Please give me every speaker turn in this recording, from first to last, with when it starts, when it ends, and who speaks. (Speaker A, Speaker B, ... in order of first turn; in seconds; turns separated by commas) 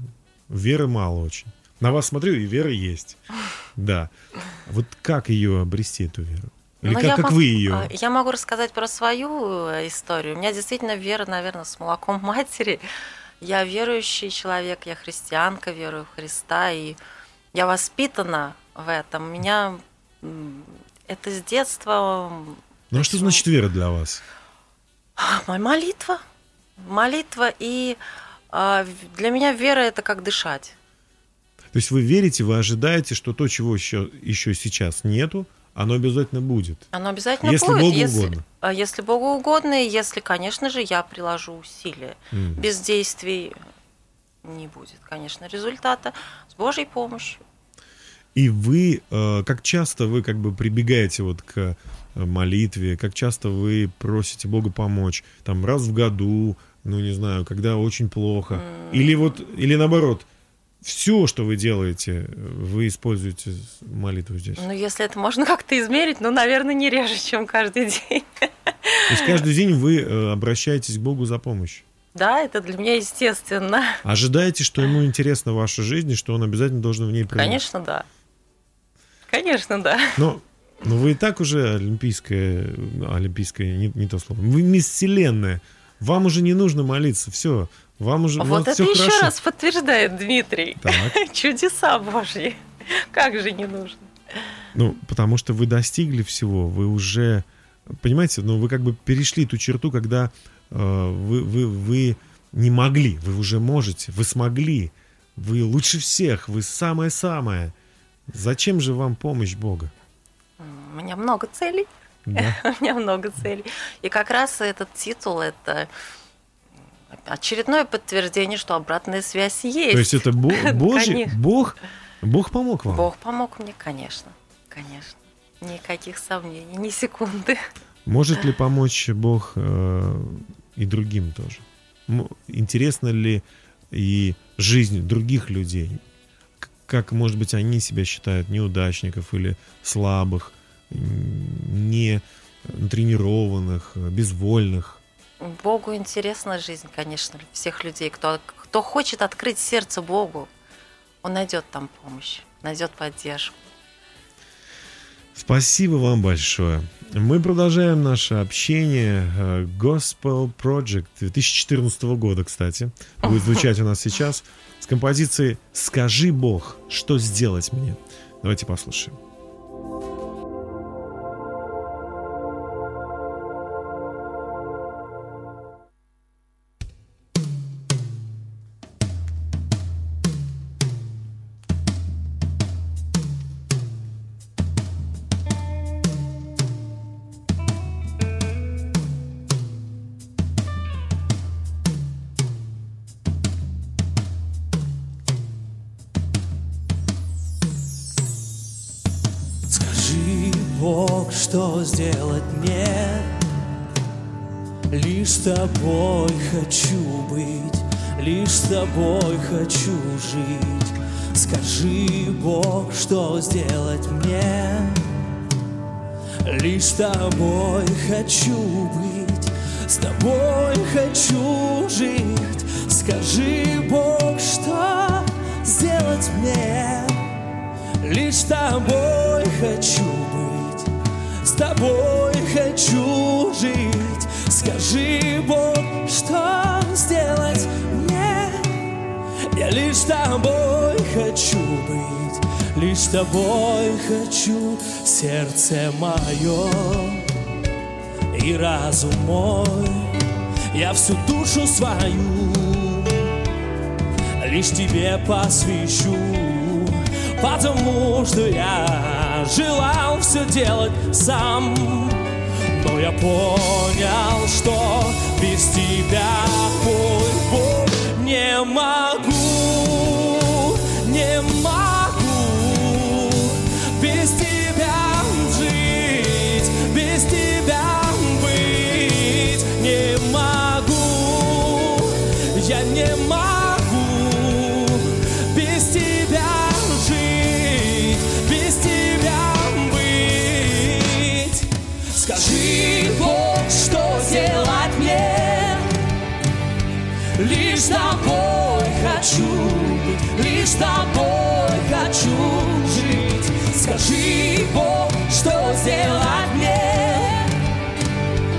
Speaker A: 0.5-3.2, Speaker A: 3.7-7.9, Speaker B: 6.8-12.8, Speaker B: 13.4-17.0, Speaker B: 17.5-23.4, Speaker A: 22.9-24.2, Speaker B: 25.2-26.2, Speaker B: 26.8-28.0, Speaker B: 28.5-30.8, Speaker A: 31.7-36.9, Speaker B: 36.9-43.5, Speaker A: 37.4-38.4, Speaker A: 42.3-42.6, Speaker B: 44.4-47.4, Speaker A: 48.3-60.3, Speaker B: 58.5-59.4, Speaker A: 60.8-64.6, Speaker B: 64.6-68.2, Speaker B: 68.8-69.4, Speaker A: 69.1-71.8, Speaker B: 72.1-74.0, Speaker A: 74.0-77.6, Speaker B: 77.3-78.0, Speaker B: 79.3-80.2, Speaker A: 80.2-89.3, Speaker B: 88.4-94.1, Speaker A: 90.8-91.2, Speaker A: 94.7-107.7, Speaker A: 108.3-109.9, Speaker B: 110.6-115.9, Speaker A: 112.2-112.6, Speaker B: 117.1-121.3, Speaker A: 119.9-123.1, Speaker B: 122.9-127.6, Speaker A: 128.1-136.0, Speaker A: 136.6-145.0, Speaker B: 145.4-150.5, Speaker B: 151.2-153.6, Speaker A: 155.3-169.2, Speaker C: 199.7-203.3, Speaker C: 204.9-215.0, Speaker C: 216.4-227.3, Speaker C: 228.0-230.9, Speaker C: 231.4-238.9, Speaker C: 239.5-247.3, Speaker C: 248.3-253.3, Speaker C: 254.4-295.9, Speaker C: 297.3-307.6